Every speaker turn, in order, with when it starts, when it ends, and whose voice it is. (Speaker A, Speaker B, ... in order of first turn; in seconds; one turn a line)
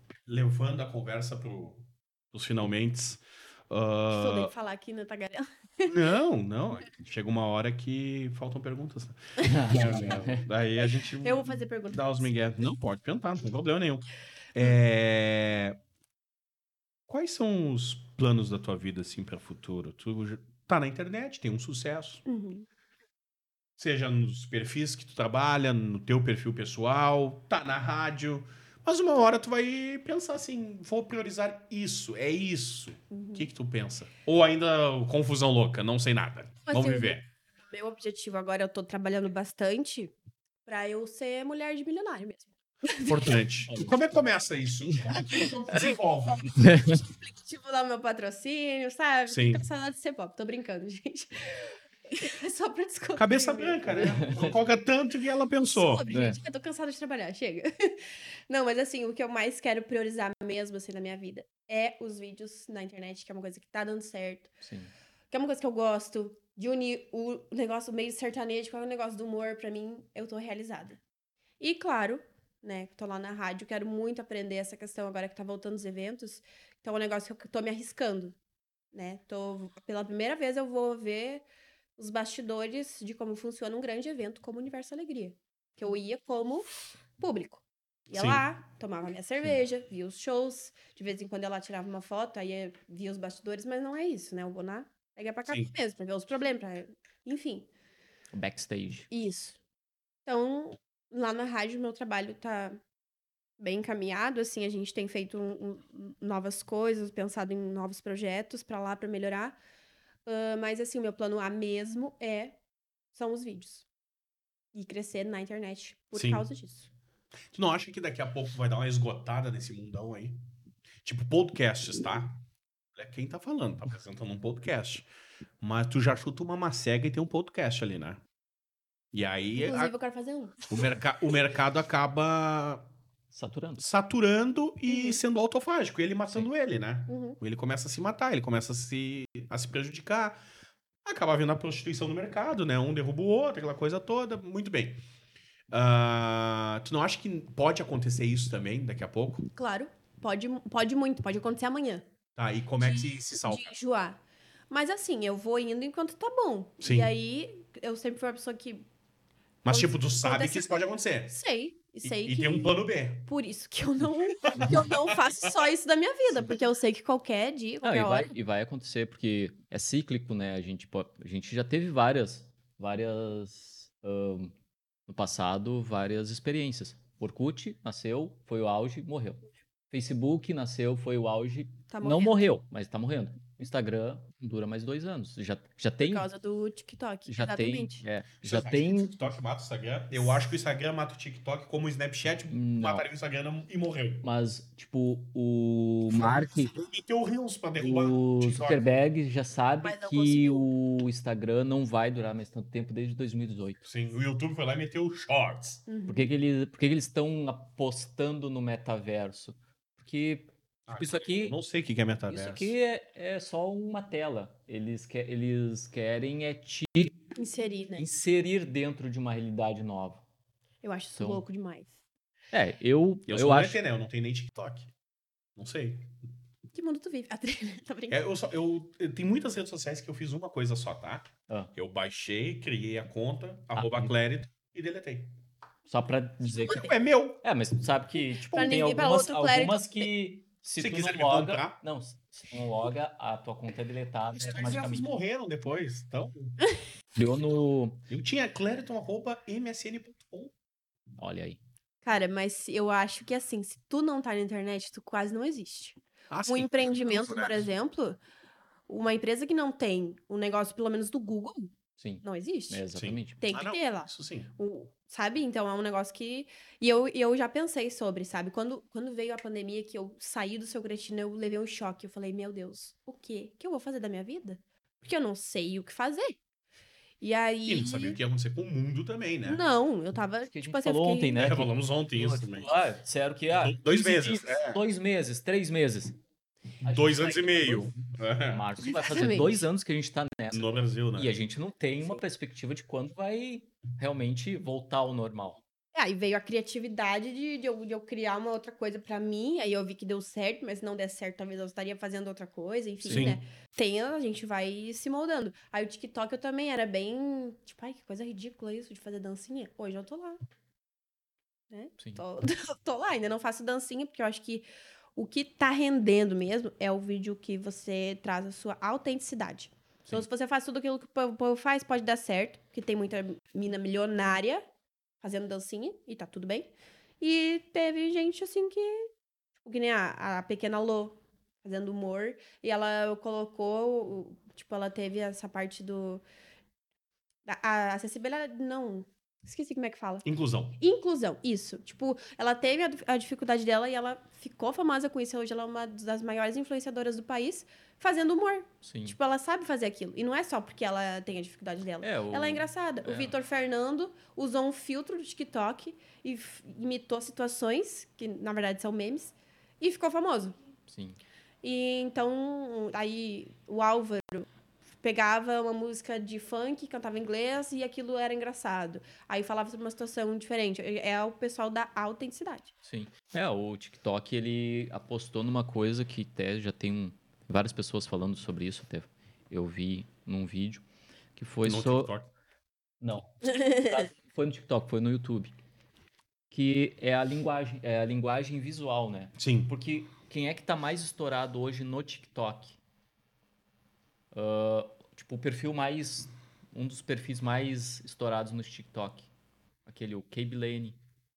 Speaker A: 0.3-4.5
Speaker B: 4.1-5.9
Speaker A: 5.9-15.8
Speaker C: 9.4-10.5
Speaker B: 10.8-12.3
Speaker A: 17.1-22.2
Speaker B: 22.2-22.7
Speaker A: 23.8-37.2
Speaker B: 33.1-33.5
Speaker B: 36.6-37.2
Speaker B: 37.7-40.1
Speaker B: 40.6-43.4
Speaker A: 43.0-46.5
Speaker C: 43.7-44.0
Speaker C: 46.5-47.0
Speaker B: 46.9-54.5
Speaker A: 49.3-49.6
Speaker A: 53.2-56.0
Speaker C: 54.0-54.5
Speaker B: 55.6-64.5
Speaker C: 56.1-56.4
Speaker C: 64.6-64.9
Speaker B: 65.3-71.0
Speaker B: 71.6-78.3
Speaker B: 78.9-81.4
Speaker B: 82.0-97.7
Speaker A: 88.1-88.4
Speaker C: 98.3-99.1
Speaker B: 99.1-99.6
Speaker B: 100.2-102.8
Speaker B: 103.6-109.6
Speaker B: 110.2-112.6
Speaker B: 113.1-113.8
Speaker B: 114.7-116.9
Speaker A: 116.1-116.5
Speaker A: 117.5-120.4
Speaker A: 121.0-122.3
Speaker A: 122.9-125.0
Speaker A: 125.6-128.2
Speaker A: 129.1-129.9
Speaker B: 129.6-130.6
Speaker A: 130.7-132.9
Speaker C: 133.3-133.9
Speaker A: 133.8-140.4
Speaker B: 134.9-135.2
Speaker B: 137.1-137.4
Speaker A: 141.0-145.0
Speaker A: 145.7-149.4
Speaker B: 149.5-152.1
Speaker A: 152.3-153.7
Speaker B: 152.8-158.9
Speaker A: 156.8-157.1
Speaker A: 159.6-161.3
Speaker B: 159.7-168.3
Speaker A: 162.0-163.3
Speaker A: 164.4-165.5
Speaker C: 167.8-174.5
Speaker C: 175.1-186.3
Speaker B: 181.9-182.4
Speaker B: 186.0-188.0
Speaker C: 187.3-189.2
Speaker A: 188.4-194.2
Speaker C: 192.5-193.1
Speaker C: 194.2-196.7
Speaker A: 196.1-198.8
Speaker C: 197.8-203.8
Speaker B: 199.8-200.7
Speaker A: 203.8-205.8
Speaker B: 205.9-206.3
Speaker C: 206.1-211.6
Speaker A: 210.9-212.7
Speaker C: 212.3-217.2
Speaker B: 217.3-218.1
Speaker C: 218.0-220.2
Speaker B: 220.8-221.9
Speaker C: 221.2-221.4
Speaker C: 222.5-223.8
Speaker A: 223.3-224.9
Speaker A: 225.6-226.2
Speaker B: 226.7-228.2
Speaker A: 228.1-235.3
Speaker C: 233.7-234.1
Speaker C: 235.9-245.1
Speaker A: 236.6-237.4
Speaker B: 238.5-240.1
Speaker A: 240.8-241.8
Speaker A: 244.3-246.6
Speaker C: 247.2-248.0
Speaker A: 248.1-250.5
Speaker C: 251.2-251.6
Speaker B: 252.0-258.2
Speaker A: 256.3-257.7
Speaker B: 258.9-261.7
Speaker C: 262.0-263.4
Speaker B: 262.2-262.8
Speaker A: 262.9-264.5
Speaker B: 263.4-276.4
Speaker B: 277.2-278.2
Speaker A: 277.6-279.6
Speaker B: 279.4-281.4
Speaker C: 280.5-286.1
Speaker A: 281.3-282.7
Speaker A: 283.5-284.8
Speaker C: 286.8-295.6
Speaker A: 286.8-288.6
Speaker B: 288.8-289.6
Speaker A: 290.5-291.3
Speaker B: 295.9-310.4
Speaker C: 303.0-303.3
Speaker A: 303.1-303.4
Speaker B: 311.7-324.6
Speaker B: 325.2-329.1
Speaker B: 329.6-336.2
Speaker B: 337.4-340.2
Speaker A: 340.2-340.8
Speaker B: 340.8-360.6
Speaker C: 348.8-349.1
Speaker C: 352.0-353.3
Speaker C: 360.9-361.2
Speaker B: 361.6-364.5
Speaker B: 365.0-372.7
Speaker C: 372.8-380.8
Speaker C: 381.4-382.1
Speaker A: 381.6-382.3
Speaker C: 383.0-385.5
Speaker B: 383.5-383.9
Speaker C: 386.5-392.8
Speaker A: 389.4-389.7
Speaker C: 394.3-399.3
Speaker C: 399.9-401.0